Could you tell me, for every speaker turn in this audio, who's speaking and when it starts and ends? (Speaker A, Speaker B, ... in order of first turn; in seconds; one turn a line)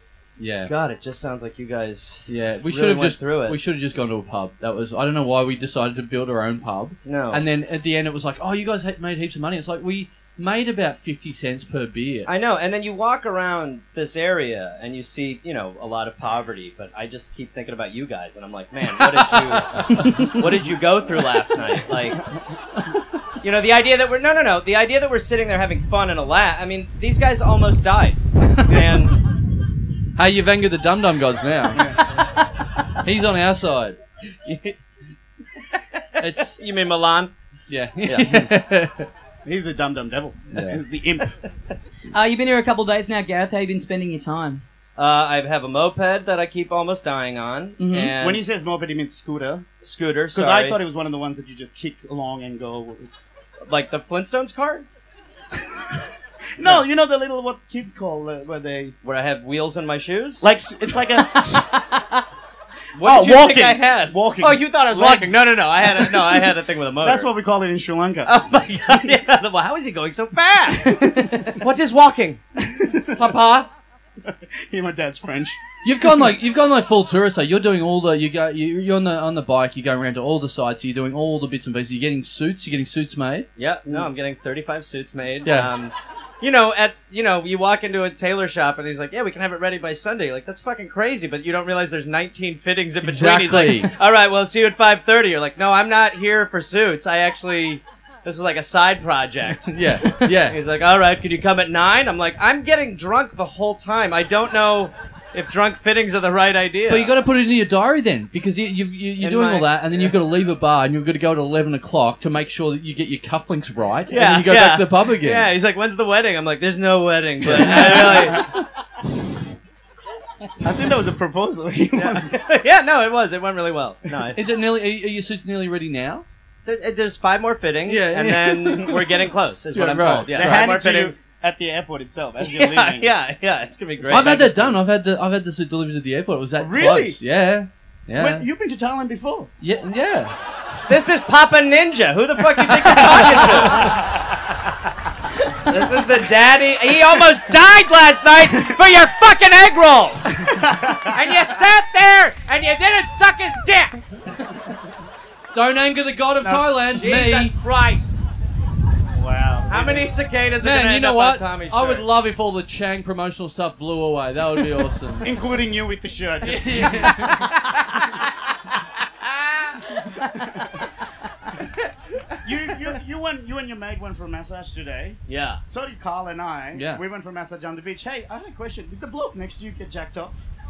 Speaker A: 0.4-0.7
Speaker B: 0.7-3.6
Speaker A: 2.3-12.3
Speaker B: 7.0-7.4
Speaker B: 12.2-22.2
Speaker A: 19.2-20.3
Speaker B: 23.4-29.1
Speaker A: 30.1-31.9
Speaker C: 31.8-32.0
Speaker A: 32.9-34.0
Speaker B: 34.5-34.8
Speaker B: 35.7-37.3
Speaker A: 36.2-36.6
Speaker A: 37.7-39.1
Speaker B: 38.0-38.5
Speaker C: 39.4-41.3
Speaker A: 40.5-40.8
Speaker D: 42.1-44.6
Speaker B: 45.0-48.4
Speaker D: 47.8-48.1
Speaker C: 48.1-49.7
Speaker B: 49.8-50.8
Speaker C: 50.3-53.1
Speaker B: 53.7-54.9
Speaker C: 55.7-56.0
Speaker C: 56.6-59.0
Speaker B: 59.0-60.4
Speaker C: 60.4-61.8
Speaker B: 62.9-67.3
Speaker C: 63.0-68.3
Speaker B: 68.2-72.4
Speaker C: 70.8-71.5
Speaker C: 72.6-73.3
Speaker B: 73.1-73.7
Speaker C: 74.2-75.6
Speaker A: 75.8-83.5
Speaker B: 83.5-99.8
Speaker A: 85.4-85.7
Speaker A: 93.0-93.9
Speaker A: 99.7-100.6
Speaker B: 100.4-107.1
Speaker A: 106.9-115.5
Speaker B: 109.2-110.2
Speaker B: 114.1-118.5
Speaker A: 117.4-118.6
Speaker C: 117.8-118.3
Speaker C: 120.6-122.4
Speaker B: 121.9-124.4
Speaker A: 124.3-126.2
Speaker B: 126.7-131.2
Speaker A: 127.8-130.7
Speaker C: 130.3-133.1
Speaker B: 132.4-134.8
Speaker A: 134.1-138.4
Speaker C: 136.6-137.2
Speaker C: 138.1-139.5
Speaker A: 139.6-140.3
Speaker B: 140.9-144.0
Speaker A: 142.7-143.4
Speaker C: 142.8-144.7
Speaker B: 145.6-150.4
Speaker C: 150.3-151.2
Speaker B: 151.1-154.0
Speaker A: 155.5-157.5
Speaker C: 156.4-156.7
Speaker B: 156.8-158.2
Speaker C: 159.1-160.1
Speaker B: 159.7-162.1
Speaker A: 160.6-165.3
Speaker C: 165.2-167.4
Speaker A: 166.4-167.4
Speaker B: 167.3-168.1
Speaker B: 169.2-169.8
Speaker C: 170.2-170.8
Speaker C: 172.4-180.4
Speaker B: 175.3-175.6
Speaker A: 176.7-177.0